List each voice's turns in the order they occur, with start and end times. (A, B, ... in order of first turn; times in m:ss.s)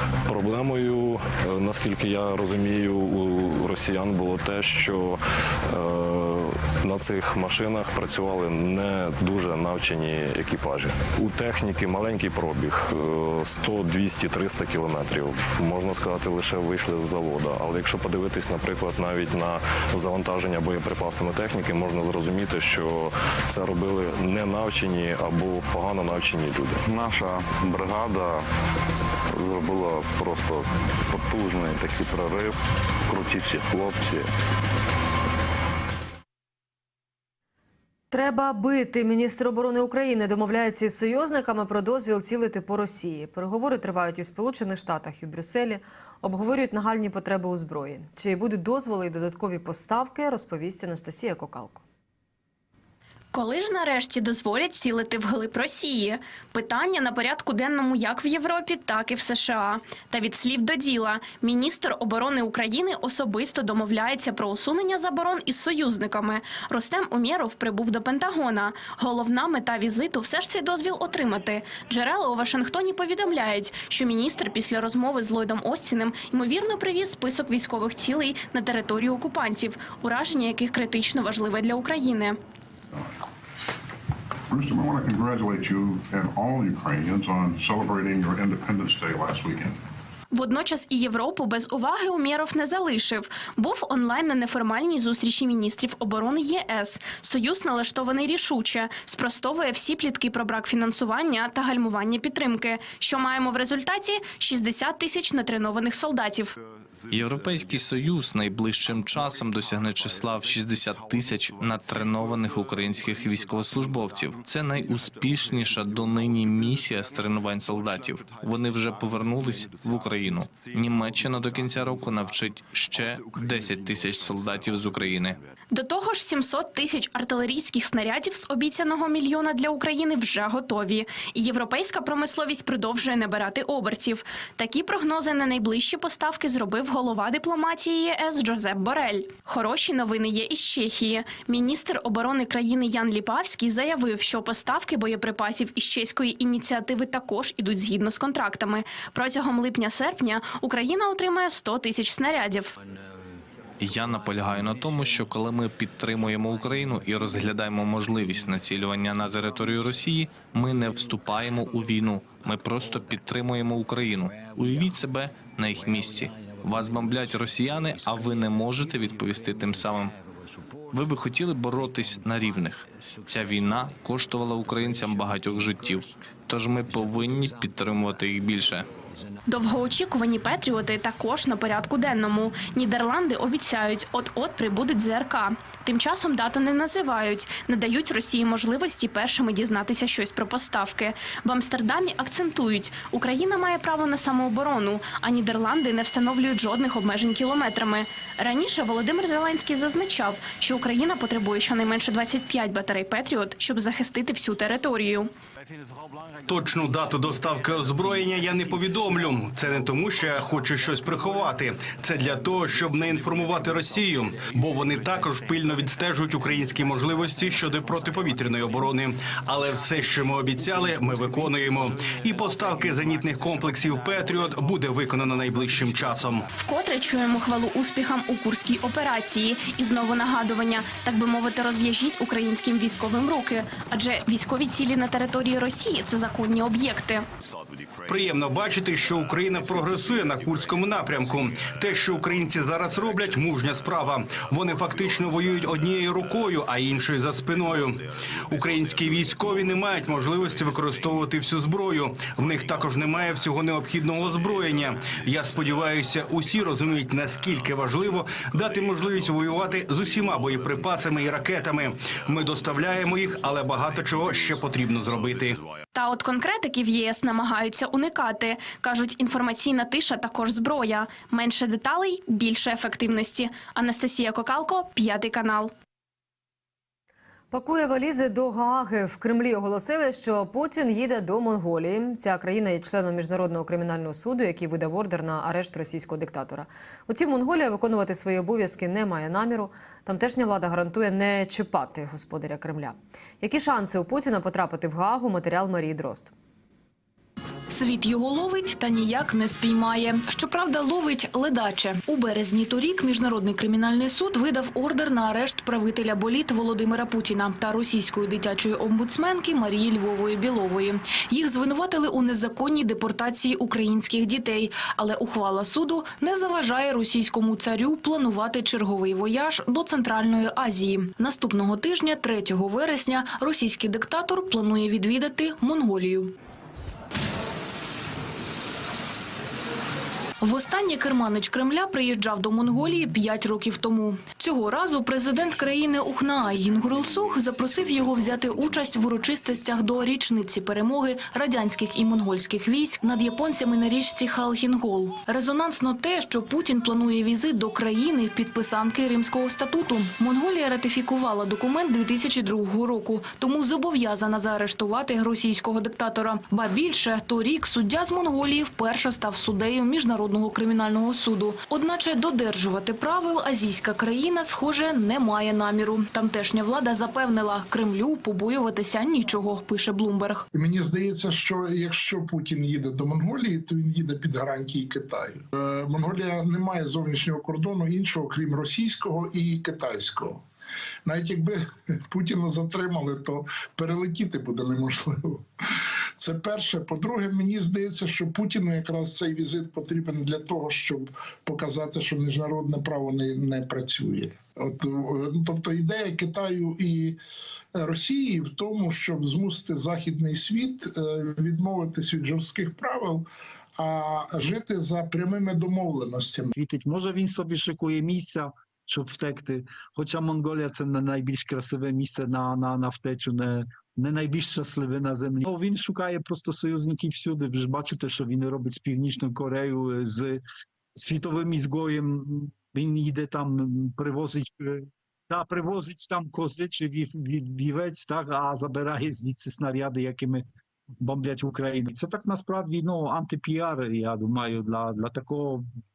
0:00.3-0:26.8 A
0:26.9-0:28.5 B
0:29.3-0:34.3 B
0:38.1-0:51.8 C
0:53.3-1:22.4 D
1:24.5-1:29.8 E
1:30.3-1:46.5 D
1:47.1-2:05.4 F
2:05.7-2:32.8 D
2:33.8-2:50.1 F
2:50.9-2:58.9 F
2:59.5-3:25.3 D
3:26.5-3:46.5 G
3:46.6-3:57.3 D
3:58.1-4:25.6 G
4:26.0-4:35.7 D
4:37.5-4:56.3 C
4:57.7-5:26.3 H
5:30.4-6:10.4 H
6:10.5-6:20.4 I
6:21.0-6:25.4 I
6:26.2-6:37.2 I
6:37.8-6:43.3 I
6:43.8-6:46.5 I
6:46.5-7:00.4 J
7:01.0-7:10.5 J
7:11.0-7:15.7 J